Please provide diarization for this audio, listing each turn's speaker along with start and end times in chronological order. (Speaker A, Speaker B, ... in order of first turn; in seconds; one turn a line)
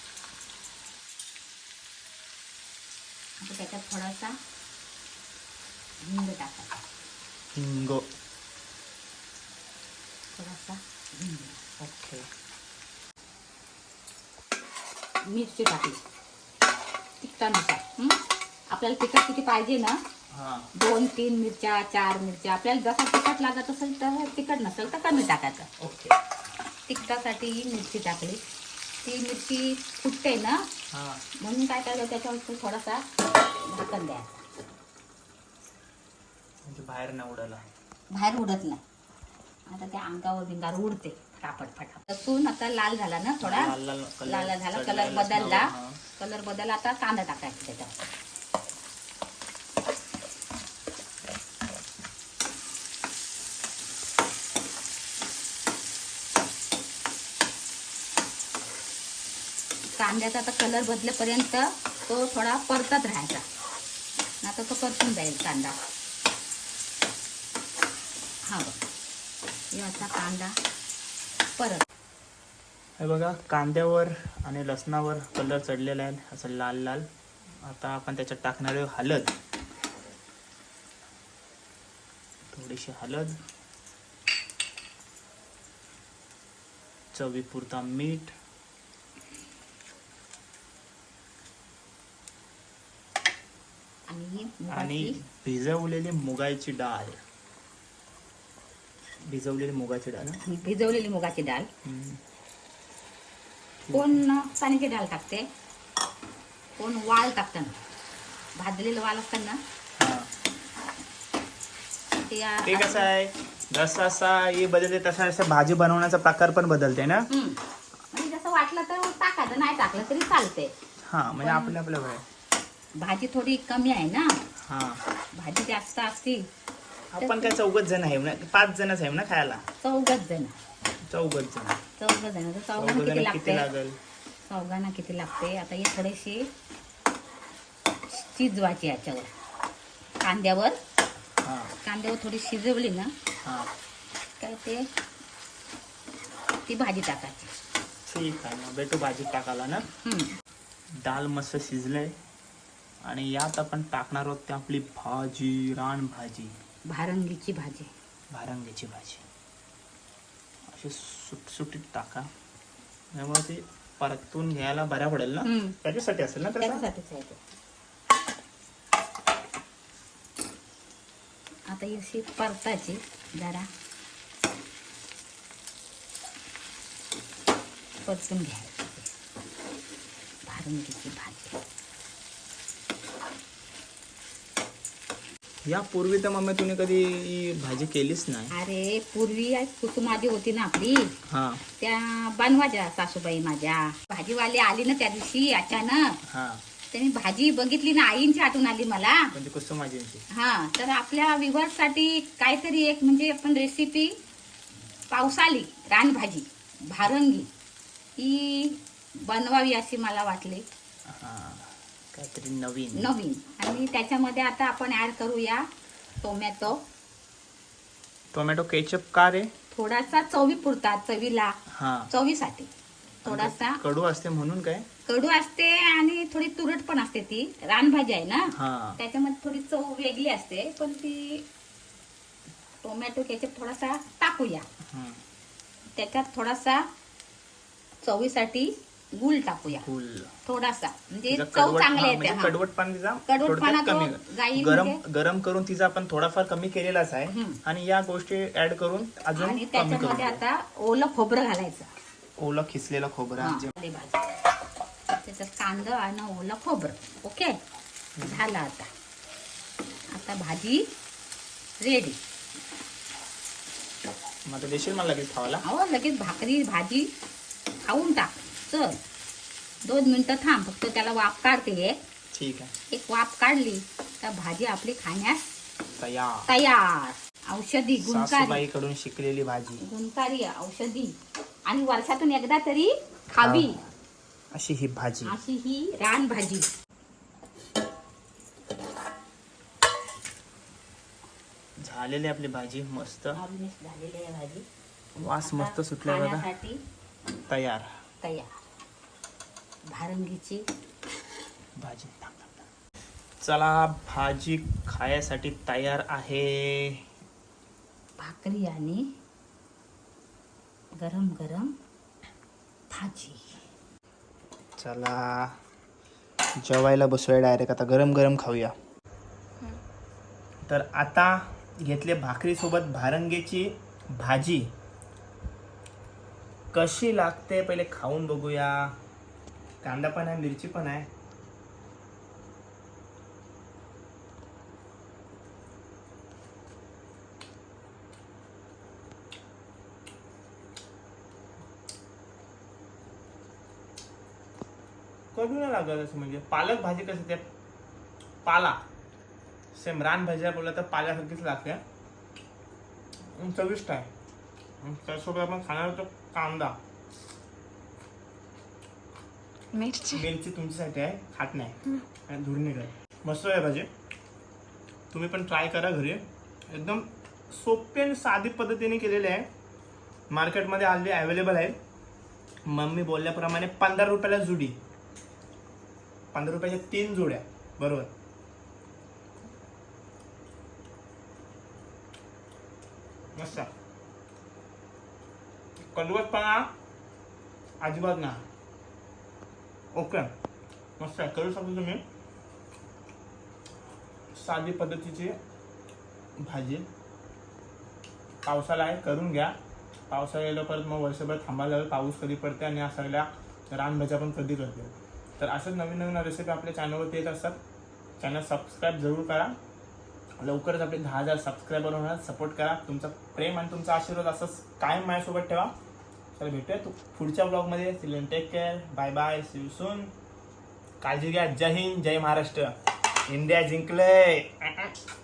Speaker A: 3.4-4.3
Speaker A: 6.0-6.8
Speaker B: 7.5-8.1
Speaker A: 10.3-11.6
Speaker B: 11.8-12.3
Speaker A: 15.2-16.0
Speaker A: 17.2-20.0
Speaker B: 20.3-20.7
Speaker A: 20.8-25.7
Speaker B: 25.8-26.1
Speaker A: 26.9-28.4
Speaker A: 29.0-30.6
Speaker B: 30.9-31.2
Speaker A: 31.4-33.0
Speaker A: 33.6-34.4
Speaker B: 36.6-37.6
Speaker A: 38.1-38.8
Speaker A: 39.7-43.7
Speaker B: 43.4-46.0
Speaker A: 44.2-47.9
Speaker A: 60.0-63.4
Speaker A: 64.4-65.8
Speaker A: 68.5-68.8
Speaker A: 69.7-70.5
Speaker A: 71.6-71.8
Speaker B: 73.0-77.1
Speaker B: 77.6-79.3
Speaker B: 82.5-83.3
Speaker B: 87.1-88.3
Speaker A: 94.1-95.2
Speaker B: 94.7-97.2
Speaker B: 99.3-100.4
Speaker A: 100.4-101.7
Speaker B: 101.8-102.2
Speaker B: 103.8-104.2
Speaker A: 103.9-105.5
Speaker A: 106.8-107.8
Speaker A: 108.5-109.6
Speaker B: 110.0-110.3
Speaker A: 112.2-113.1
Speaker B: 112.7-117.3
Speaker A: 117.3-117.6
Speaker A: 118.1-120.7
Speaker B: 121.0-122.2
Speaker A: 121.4-121.7
Speaker A: 123.0-124.4
Speaker B: 124.6-125.0
Speaker A: 125.3-126.5
Speaker B: 127.1-129.6
Speaker A: 127.2-127.5
Speaker A: 129.8-130.6
Speaker B: 131.1-131.8
Speaker A: 132.0-133.7
Speaker B: 132.8-134.0
Speaker A: 134.4-136.5
Speaker A: 138.1-139.3
Speaker A: 140.2-140.8
Speaker B: 141.4-141.7
Speaker A: 141.8-143.1
Speaker B: 143.4-143.7
Speaker A: 144.4-144.8
Speaker A: 146.7-147.5
Speaker B: 148.1-149.9
Speaker A: 150.0-150.3
Speaker B: 151.0-152.2
Speaker B: 153.0-156.5
Speaker A: 156.9-157.9
Speaker B: 158.3-159.2
Speaker B: 160.7-162.3
Speaker B: 163.1-166.8
Speaker A: 165.4-165.8
Speaker A: 166.6-167.4
Speaker A: 171.7-173.7
Speaker A: 178.0-179.1
Speaker A: 180.5-181.6
Speaker B: 185.7-188.5
Speaker A: 188.5-191.1
Speaker B: 191.3-191.6
Speaker A: 191.8-196.2
Speaker B: 196.2-196.6
Speaker A: 196.9-199.3
Speaker B: 199.3-200.2
Speaker A: 200.3-204.2
Speaker A: 205.1-207.5
Speaker A: 208.2-210.6
Speaker B: 211.1-213.1
Speaker A: 212.9-215.7
Speaker A: 216.2-216.8
Speaker B: 218.3-219.5
Speaker A: 219.7-221.6
Speaker B: 221.7-222.1
Speaker A: 222.1-222.7
Speaker A: 223.2-223.8
Speaker B: 223.2-224.8
Speaker A: 225.1-231.4
Speaker B: 228.5-229.0
Speaker A: 232.8-234.6
Speaker B: 234.9-235.2
Speaker A: 235.9-236.9
Speaker A: 238.0-239.9
Speaker B: 239.7-240.3
Speaker A: 240.4-242.6
Speaker B: 241.3-250.4
Speaker A: 243.3-245.0
Speaker A: 247.3-247.6
Speaker A: 249.3-251.9
Speaker B: 252.4-253.7
Speaker A: 253.4-254.2
Speaker A: 255.2-257.6
Speaker B: 258.1-258.4
Speaker A: 258.2-258.9
Speaker A: 260.1-260.9
Speaker A: 261.8-262.2
Speaker B: 264.4-265.6
Speaker A: 265.6-267.1
Speaker A: 267.9-269.0
Speaker A: 269.8-272.0
Speaker B: 272.3-272.7
Speaker A: 272.9-275.5
Speaker B: 276.0-276.5
Speaker A: 276.5-278.6
Speaker B: 278.0-279.8
Speaker A: 279.8-281.1
Speaker A: 281.7-283.8
Speaker B: 283.4-283.8
Speaker B: 284.5-285.4
Speaker A: 285.2-286.7
Speaker B: 291.8-293.4
Speaker A: 293.4-294.6
Speaker B: 295.2-296.5
Speaker A: 295.4-296.8
Speaker B: 297.5-297.9
Speaker A: 298.2-298.6
Speaker A: 299.9-300.6
Speaker B: 301.8-302.6
Speaker B: 303.4-307.0
Speaker A: 308.2-309.0
Speaker A: 311.0-311.7
Speaker A: 312.9-313.6
Speaker B: 314.8-315.6
Speaker B: 316.6-318.7
Speaker B: 320.7-324.7
Speaker B: 326.7-328.9
Speaker B: 329.8-331.1
Speaker B: 345.3-347.4
Speaker B: 348.4-348.8
Speaker B: 349.7-351.8
Speaker B: 353.3-354.1
Speaker B: 354.8-356.8
Speaker B: 359.9-363.9
Speaker B: 365.1-369.5
Speaker B: 370.3-371.8
Speaker B: 372.7-374.8
Speaker B: 376.3-378.1
Speaker B: 383.3-383.7
Speaker B: 385.9-386.7
Speaker B: 387.8-388.4
Speaker B: 389.9-390.3
Speaker B: 391.0-392.0
Speaker B: 394.3-395.4
Speaker B: 396.4-396.9
Speaker B: 398.4-399.5
Speaker B: 400.1-407.6
Speaker B: 408.2-409.5
Speaker B: 410.4-415.7
Speaker B: 416.4-420.1
Speaker B: 421.0-422.7
Speaker B: 423.3-424.9